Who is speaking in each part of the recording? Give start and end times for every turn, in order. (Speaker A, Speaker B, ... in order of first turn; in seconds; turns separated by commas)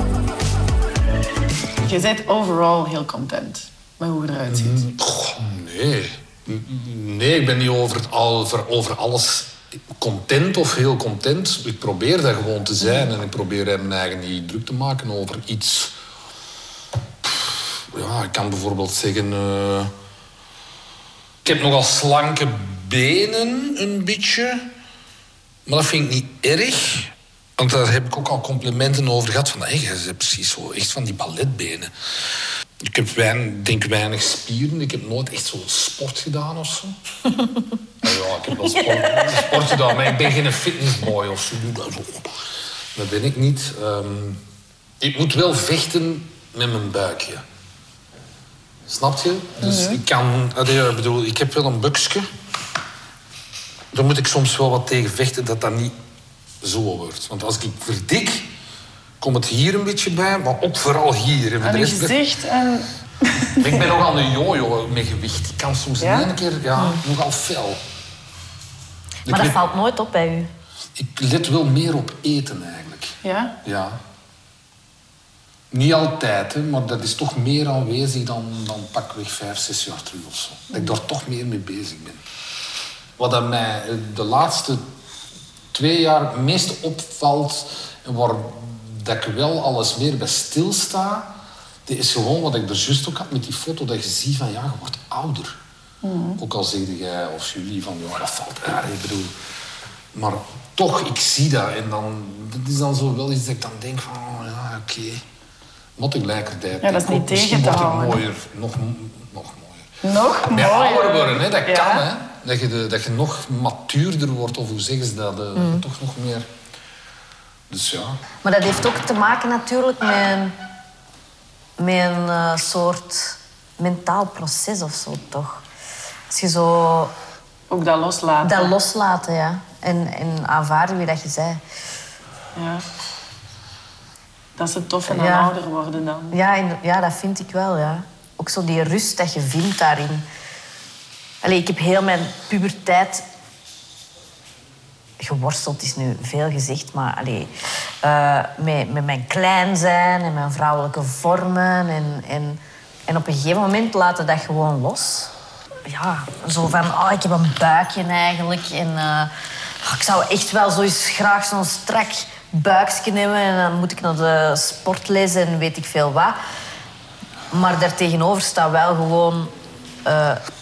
Speaker A: 1.8-4.8, Speaker B: 4.5-15.9, Speaker B: 17.2-19.9, Speaker B: 21.4-24.7, Speaker B: 25.6-31.9, Speaker B: 32.8-37.0, Speaker B: 38.0-42.3, Speaker C: 38.7-39.9, Speaker B: 42.9-44.4, Speaker B: 45.0-47.4, Speaker B: 48.9-52.3, Speaker A: 49.6-50.0, Speaker B: 53.9-56.0, Speaker B: 56.6-58.5, Speaker B: 59.2-62.1, Speaker A: 61.6-63.8, Speaker B: 63.6-67.8, Speaker A: 66.0-66.3, Speaker C: 66.8-67.0, Speaker B: 69.2-69.6, Speaker C: 69.3-70.5, Speaker B: 70.9-74.0, Speaker A: 73.2-73.6, Speaker B: 75.7-82.2, Speaker B: 83.2-84.8, Speaker B: 85.7-95.5, Speaker A: 96.0-96.4, Speaker B: 96.4-99.3, Speaker B: 100.1-105.2, Speaker B: 106.0-109.9, Speaker A: 106.8-108.2, Speaker A: 110.0-112.0, Speaker B: 110.5-116.5, Speaker C: 115.5-115.8, Speaker B: 117.7-118.2, Speaker C: 118.4-120.5, Speaker C: 121.8-125.6, Speaker C: 126.3-127.1, Speaker A: 127.7-128.7, Speaker C: 128.4-131.6, Speaker A: 132.5-132.8, Speaker A: 134.6-136.4, Speaker C: 135.1-135.5, Speaker C: 136.3-140.2, Speaker C: 141.4-143.2, Speaker C: 145.2-147.5, Speaker C: 148.0-155.3, Speaker C: 155.8-166.4, Speaker C: 167.5-169.5, Speaker C: 170.0-170.4